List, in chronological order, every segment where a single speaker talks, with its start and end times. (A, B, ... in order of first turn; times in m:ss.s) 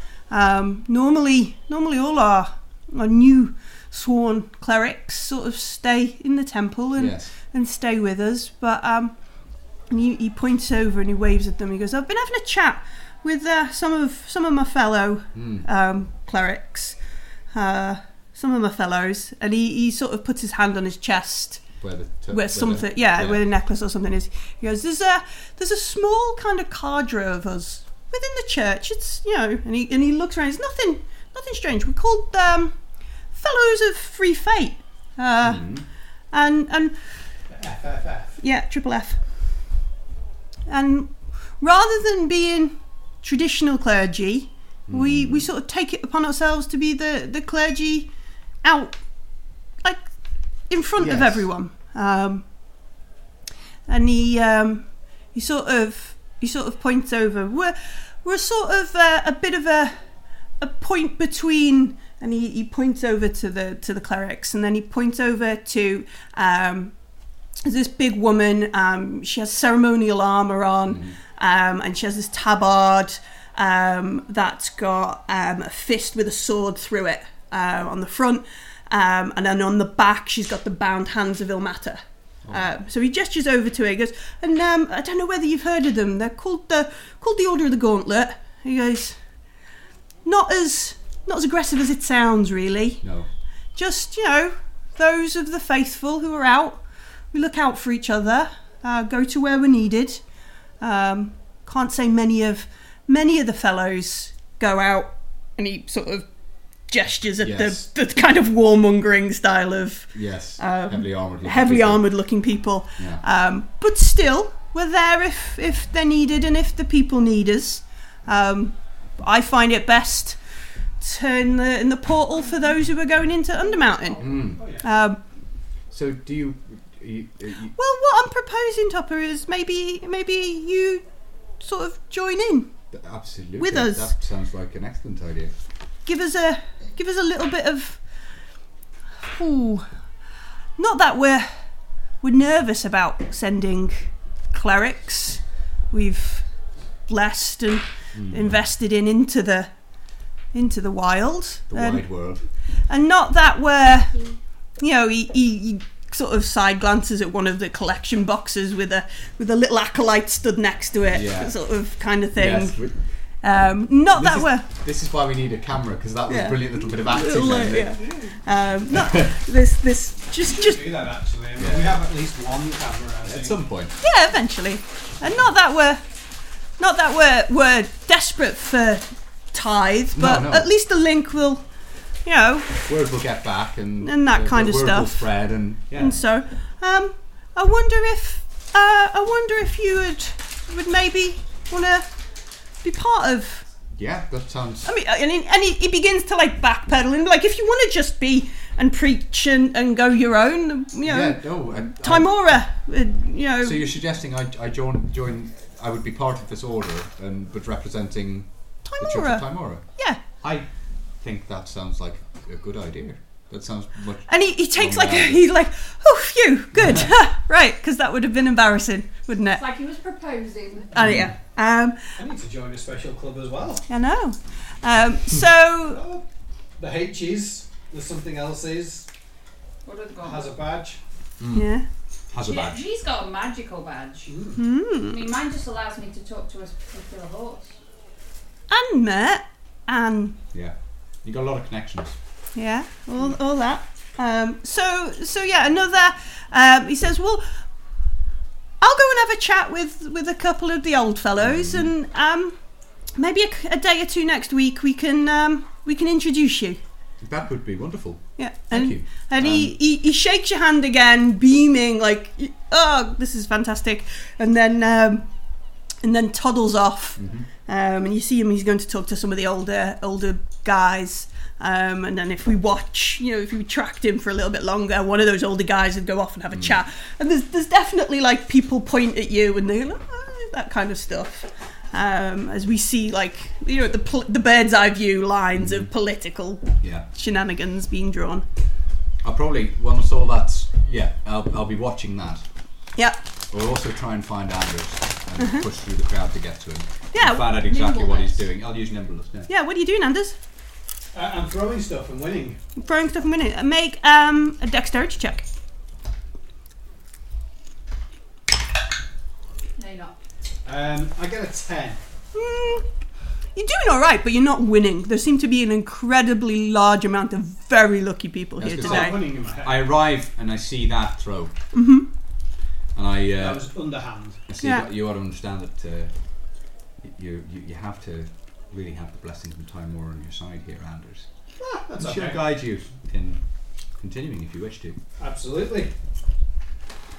0:00.3-0:09.1 A
0:07.0-0:07.3 B
0:09.9-0:17.0 A
0:15.3-0:15.6 B
0:17.5-0:21.7 A
0:21.8-0:23.4 B
0:22.3-0:32.8 A
0:33.3-0:35.8 A
0:35.4-0:35.8 B
0:36.3-0:37.0 A
0:37.5-0:38.4 C
0:38.4-0:39.2 A
0:40.7-0:48.1 A
0:44.9-0:45.4 B
0:48.6-0:49.0 A
0:50.7-0:52.4 A
0:51.0-0:51.5 B
0:53.9-1:00.0 A
1:00.6-1:06.9 A
1:07.6-1:29.2 A
1:10.9-1:11.1 B
1:30.2-1:33.0 A
1:33.0-1:33.3 B
1:33.8-1:40.2 A
1:40.8-1:46.2 A
1:46.9-2:00.4 A
1:47.4-1:47.8 B
1:50.1-1:52.1 B
2:01.0-2:05.2 A
2:03.6-2:04.5 D
2:04.2-2:04.6 B
2:04.4-2:04.8 C
2:05.9-2:07.8 B
2:07.8-2:11.0 A
2:11.6-2:12.7 A
2:12.9-2:15.5 B
2:13.6-2:14.1 A
2:16.0-2:18.0 A
2:19.2-2:19.9 A
2:20.8-2:21.6 A
2:22.2-2:26.4 A
2:27.0-2:29.7 A
2:28.1-2:28.6 B
2:30.5-2:32.1 A
2:31.7-2:32.5 B
2:32.9-2:42.8 A
2:41.1-2:41.5 B
2:42.3-2:43.0 B
2:43.4-2:44.6 A
2:44.1-2:48.3 B
2:46.3-2:51.0 A
2:48.9-2:49.3 B
2:50.4-2:53.6 C
2:51.6-2:52.0 B
2:53.2-2:54.0 B
2:54.0-2:56.0 A
2:56.8-3:01.6 A
3:00.1-3:00.7 B
3:02.2-3:02.8 A
3:02.8-3:06.2 B
3:04.0-3:05.3 A
3:05.9-3:12.1 A
3:12.8-3:13.6 A
3:14.0-3:14.9 B
3:14.8-3:23.8 A
3:21.0-3:22.4 B
3:23.6-3:29.8 B
3:28.9-3:30.2 A
3:30.4-3:30.7 B
3:31.2-3:35.4 B
3:34.3-3:39.6 A
3:39.5-3:40.9 D
3:40.9-3:42.1 A
3:41.0-3:41.3 B
3:42.1-3:43.8 C
3:43.9-3:46.0 A
3:45.9-3:46.2 C
3:46.8-3:49.1 C
3:49.8-3:50.6 D
3:50.2-3:51.0 C
3:51.4-3:51.7 B
3:51.5-3:51.9 A
3:52.3-3:52.8 B
3:52.4-3:54.4 D
3:54.3-3:54.6 C
3:54.6-3:55.2 A
3:55.0-3:57.8 D
3:58.7-4:00.4 A
4:00.5-4:02.2 B
4:02.5-4:07.6 A
4:08.8-4:12.6 A
4:11.4-4:11.9 B
4:13.1-4:16.8 A
4:17.2-4:19.8 B
4:18.4-4:25.3 A
4:26.0-4:48.4 A
4:27.2-4:27.5 B
4:45.6-4:45.9 B
4:46.8-4:47.0 B
4:49.2-4:52.4 B
4:53.5-4:59.5 B
4:55.4-4:55.6 A
4:57.1-4:57.6 A
4:57.4-4:58.4 D
4:59.5-5:00.4 A
5:01.1-5:02.6 C
5:02.8-5:05.4 A
5:09.8-5:10.2 D
5:10.6-5:12.0 C
5:12.3-5:12.8 A
5:13.5-5:19.2 A
5:18.6-5:21.5 B
5:18.8-5:19.9 C
5:21.7-5:22.1 A
5:22.9-5:23.7 B
5:23.4-5:24.4 C
5:24.5-5:26.1 B
5:24.6-5:24.9 A
5:27.0-5:31.3 B
5:31.6-5:32.5 C
5:32.0-5:33.4 B
5:34.0-5:35.0 B
5:35.2-5:35.9 C